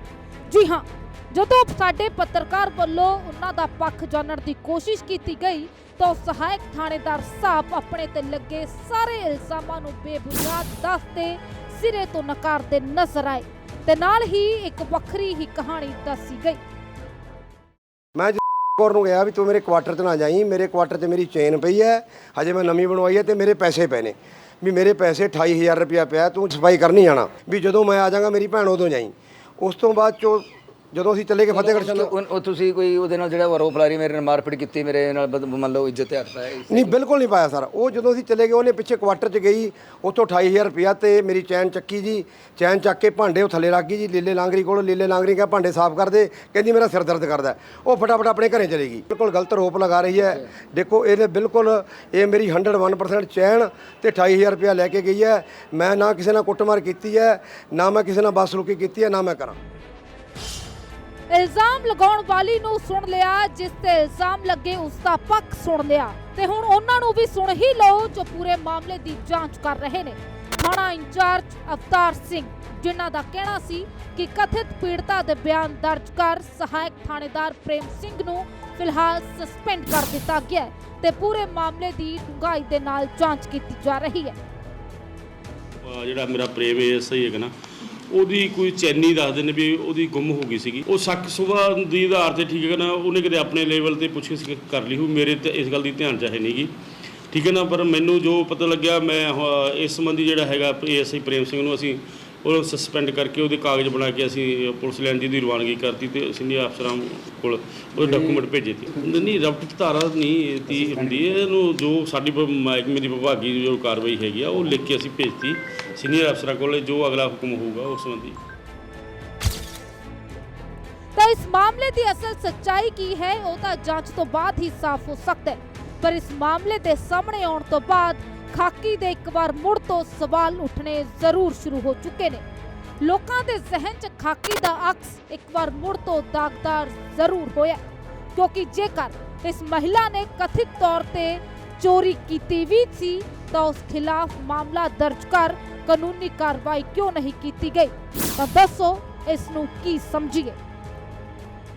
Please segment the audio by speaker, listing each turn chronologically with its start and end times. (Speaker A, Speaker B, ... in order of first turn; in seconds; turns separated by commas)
Speaker A: 0.5-16.6, Speaker B: 18.1-32.1, Speaker C: 31.5-37.0, Speaker B: 36.7-59.5, Speaker A: 61.3-84.3, Speaker D: 85.8-87.5, Speaker D: 88.1-96.7, Speaker D: 97.3-118.4, Speaker A: 121.2-132.4, Speaker A: 133.0-137.8, Speaker A: 138.3-150.6